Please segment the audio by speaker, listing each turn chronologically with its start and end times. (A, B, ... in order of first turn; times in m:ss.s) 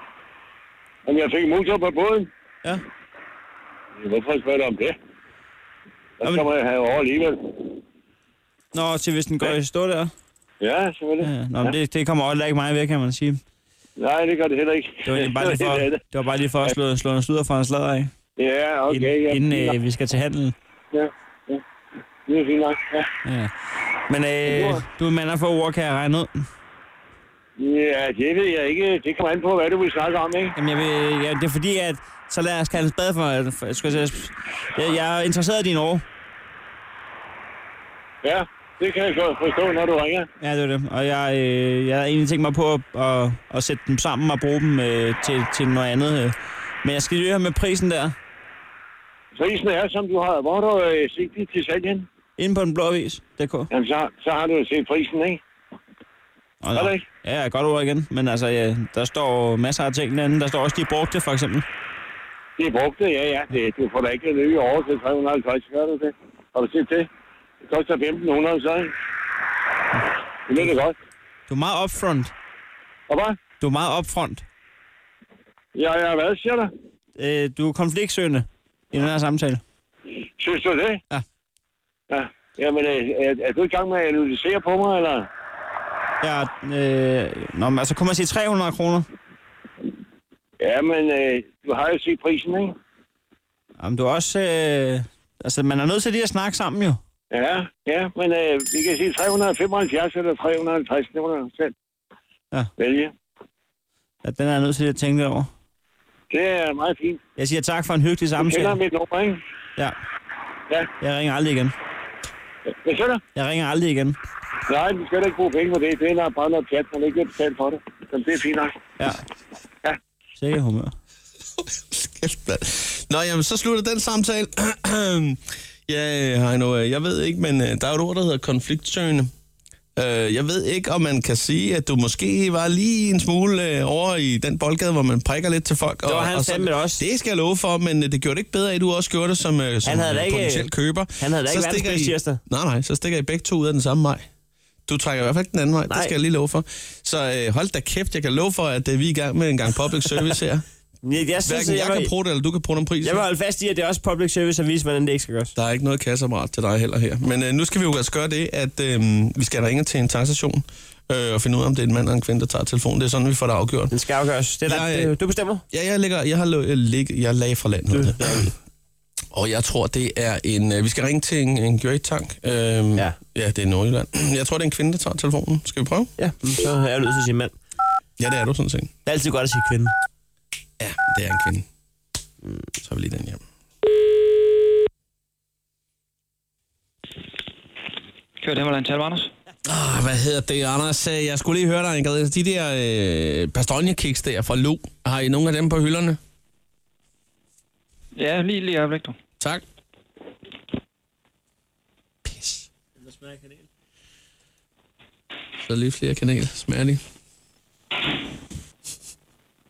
0:01.1-0:02.3 A
0:04.0-0:05.0 A
0:06.2-0:07.7 A
0:08.7-0:10.1 B
0:10.6-0:11.7 A
0:11.2-0:13.4 B
0:14.0-0:16.0 A
0:15.0-0:18.1 B
0:18.4-0:19.8 A
0:18.9-0:20.6 B
0:20.9-0:21.6 A
0:22.3-0:23.1 A
0:23.2-0:23.5 B
0:24.1-0:26.5 B
0:24.5-0:24.8 A
0:27.6-0:30.6 A
0:30.6-0:36.0 B
0:38.2-0:40.3 A
0:40.4-0:48.2 B
0:49.4-0:52.1 A
0:52.4-0:53.7 B
0:53.7-0:55.4 A
0:56.6-1:01.6 B
0:56.7-0:57.0 A
1:02.6-1:07.1 A
1:07.7-1:08.9 A
1:10.5-1:11.0 A
1:11.5-1:12.3 B
1:13.1-1:13.4 A
1:13.6-1:14.4 B
1:15.8-1:16.7 A
1:17.2-1:19.6 B
1:20.4-1:21.0 A
1:22.1-1:25.3 A
1:26.2-1:29.1 B
1:30.6-1:32.7 A
1:33.8-1:37.0 B
1:37.3-1:41.7 A
1:42.8-1:43.1 A
1:44.2-1:45.5 B
1:46.3-1:47.2 A
1:47.4-1:48.8 B
1:48.4-1:49.4 A
1:51.0-1:51.7 B
1:52.8-1:53.2 A
1:53.3-1:54.2 B
1:54.7-1:58.8 A
2:00.4-2:00.9 B
2:01.6-2:09.3 C
2:10.0-2:24.2 C
2:16.0-2:17.0 B
2:19.8-2:22.4 B
2:24.9-2:30.6 C
2:25.9-2:26.1 B
2:31.0-2:32.1 B
2:31.4-2:33.2 C
2:33.0-2:35.6 B
2:35.6-2:43.9 C
2:43.9-2:45.6 B
2:44.6-2:45.2 C
2:45.7-2:48.5 C
2:47.9-2:48.5 B
2:49.3-2:56.1 C
2:56.2-2:57.5 B
2:58.2-2:58.9 C
2:59.1-2:59.9 B
3:00.8-3:01.6 C
3:02.8-3:03.4 C
3:08.4-3:09.3 D
3:09.6-3:16.2 C
3:18.2-3:19.2 D
3:23.1-3:23.5 B
3:25.6-3:27.0 C